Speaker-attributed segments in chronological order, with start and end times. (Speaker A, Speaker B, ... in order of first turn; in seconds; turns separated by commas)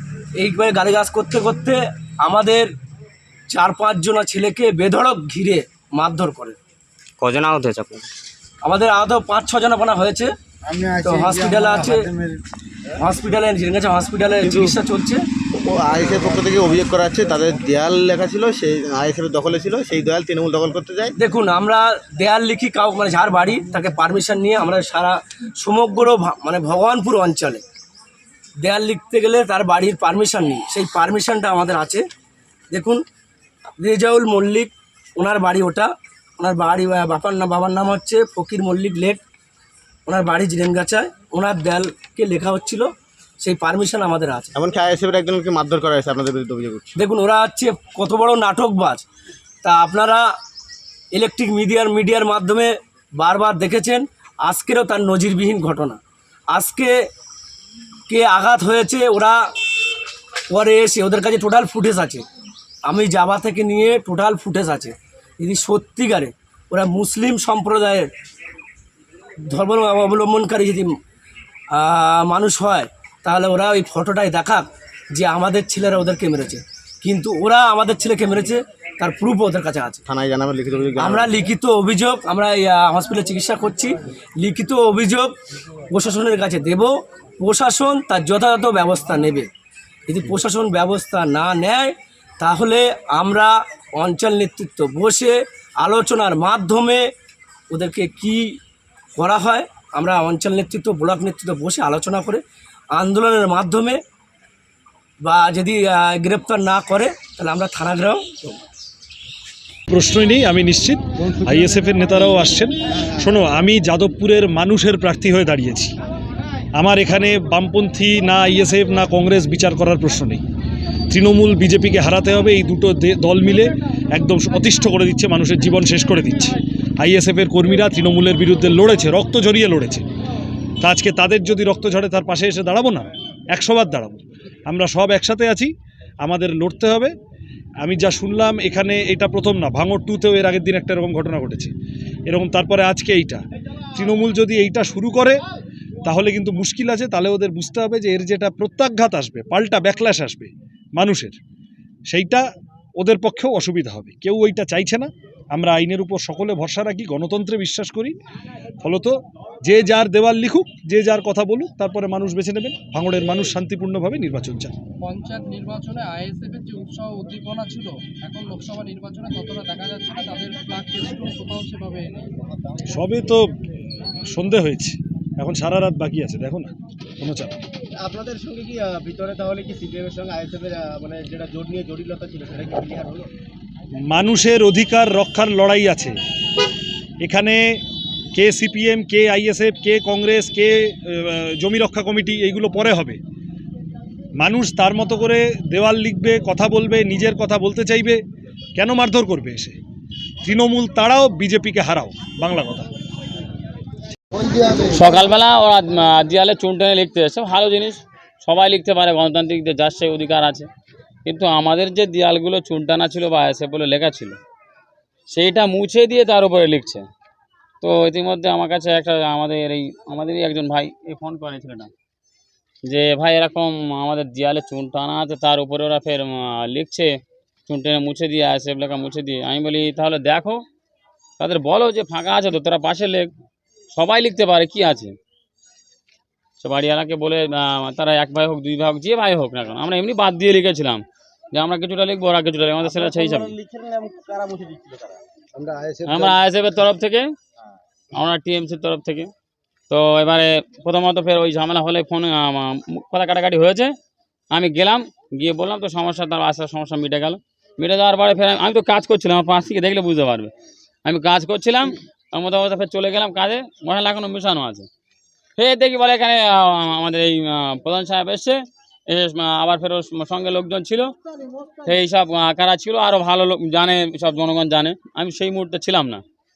Speaker A: 0.4-2.7, Speaker A: 3.5-6.6, Speaker A: 8.6-10.3, Speaker A: 11.0-12.1, Speaker A: 13.0-15.3, Speaker B: 14.4-14.8, Speaker B: 15.5-21.1, Speaker A: 21.2-27.6, Speaker A: 28.6-32.0, Speaker A: 32.7-33.0, Speaker A: 33.8-39.2, Speaker A: 40.1-44.5, Speaker B: 44.5-47.0, Speaker A: 47.0-49.0, Speaker A: 49.6-50.2, Speaker A: 51.1-56.0, Speaker A: 56.5-57.0, Speaker A: 58.1-59.4, Speaker A: 60.5-62.2, Speaker A: 62.9-68.1, Speaker A: 69.4-71.0, Speaker A: 71.7-80.0, Speaker B: 80.1-81.4, Speaker A: 81.0-85.3, Speaker A: 85.9-89.5, Speaker A: 90.1-97.1, Speaker A: 97.7-98.6, Speaker A: 99.2-102.4, Speaker A: 102.9-104.0, Speaker A: 105.2-108.3, Speaker C: 109.9-116.0, Speaker C: 116.8-120.4, Speaker C: 121.1-130.1, Speaker C: 130.8-135.7, Speaker C: 136.2-137.1, Speaker C: 137.8-141.7, Speaker C: 142.3-143.4, Speaker C: 143.9-145.4, Speaker C: 146.0-151.4, Speaker C: 152.1-152.5, Speaker C: 153.0-158.2, Speaker C: 158.8-164.7, Speaker D: 165.0-172.3, Speaker C: 172.9-173.4, Speaker C: 174.3-177.6, Speaker B: 178.0-183.3, Speaker C: 184.1-186.2, Speaker C: 187.2-187.8, Speaker C: 188.3-193.2, Speaker C: 194.4-198.2, Speaker C: 198.8-199.8, Speaker C: 200.4-202.9, Speaker E: 204.7-210.7, Speaker E: 211.2-214.4, Speaker E: 215.3-217.1, Speaker E: 217.8-221.9, Speaker E: 222.8-227.2, Speaker E: 227.7-230.6, Speaker E: 231.4-233.3, Speaker E: 233.9-235.2, Speaker E: 236.6-243.5, Speaker B: 242.8-245.2, Speaker E: 246.1-247.3, Speaker E: 248.1-249.3, Speaker E: 249.9-253.9, Speaker E: 254.5-260.5, Speaker E: 261.1-264.9, Speaker E: 265.6-271.1, Speaker E: 271.8-276.2